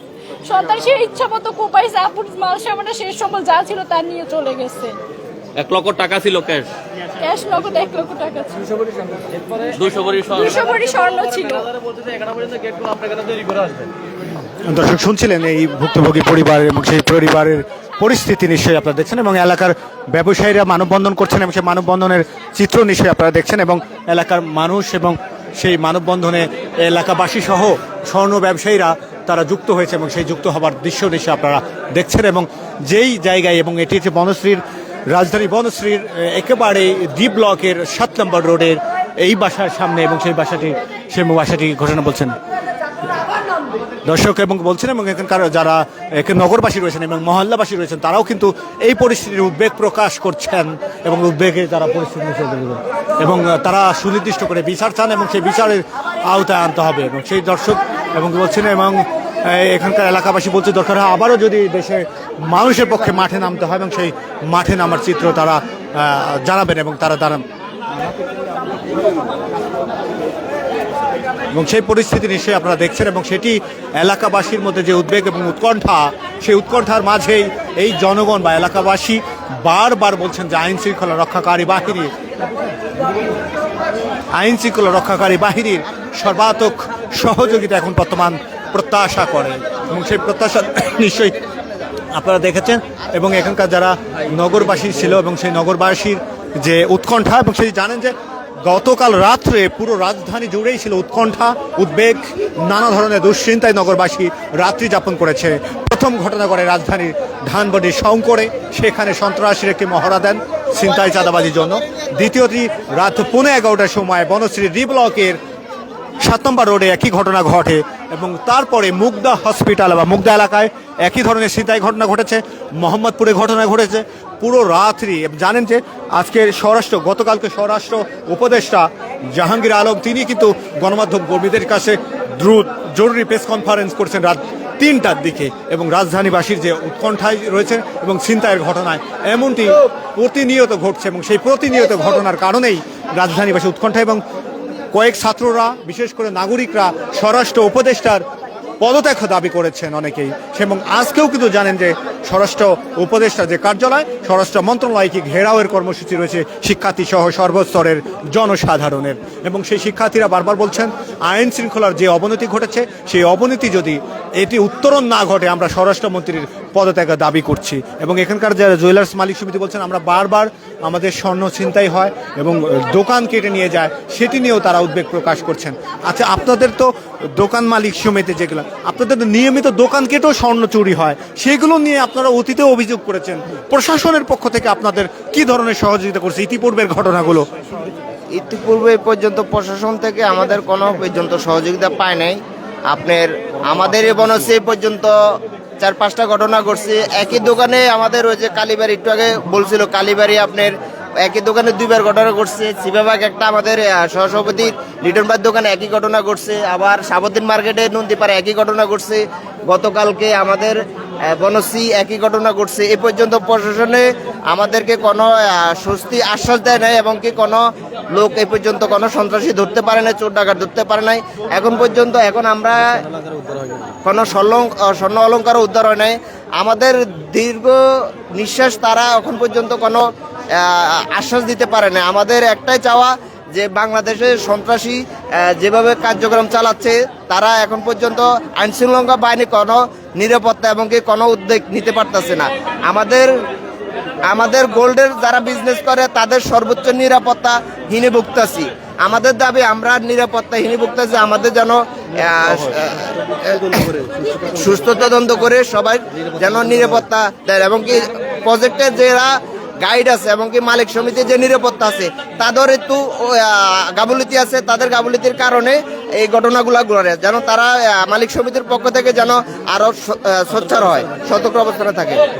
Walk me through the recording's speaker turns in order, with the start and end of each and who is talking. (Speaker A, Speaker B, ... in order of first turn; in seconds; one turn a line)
Speaker A: 0.4-4.9
Speaker B: 5.6-6.7
Speaker A: 7.2-8.7
Speaker C: 9.3-9.7
Speaker B: 9.7-10.6
Speaker A: 10.3-11.7
Speaker C: 11.9-13.9
Speaker D: 14.7-42.4
Speaker D: 44.0-67.4
Speaker D: 71.5-82.1
Speaker D: 84.3-91.4
Speaker D: 92.1-98.1
Speaker D: 98.7-115.4
Speaker D: 116.2-144.2
Speaker D: 144.9-148.2
Speaker D: 148.8-187.5
Speaker E: 188.3-210.8
Speaker E: 211.3-222.8
Speaker C: 223.5-223.9
Speaker E: 224.1-227.8
Speaker E: 228.3-230.0
Speaker E: 230.6-243.3
Speaker E: 244.3-272.2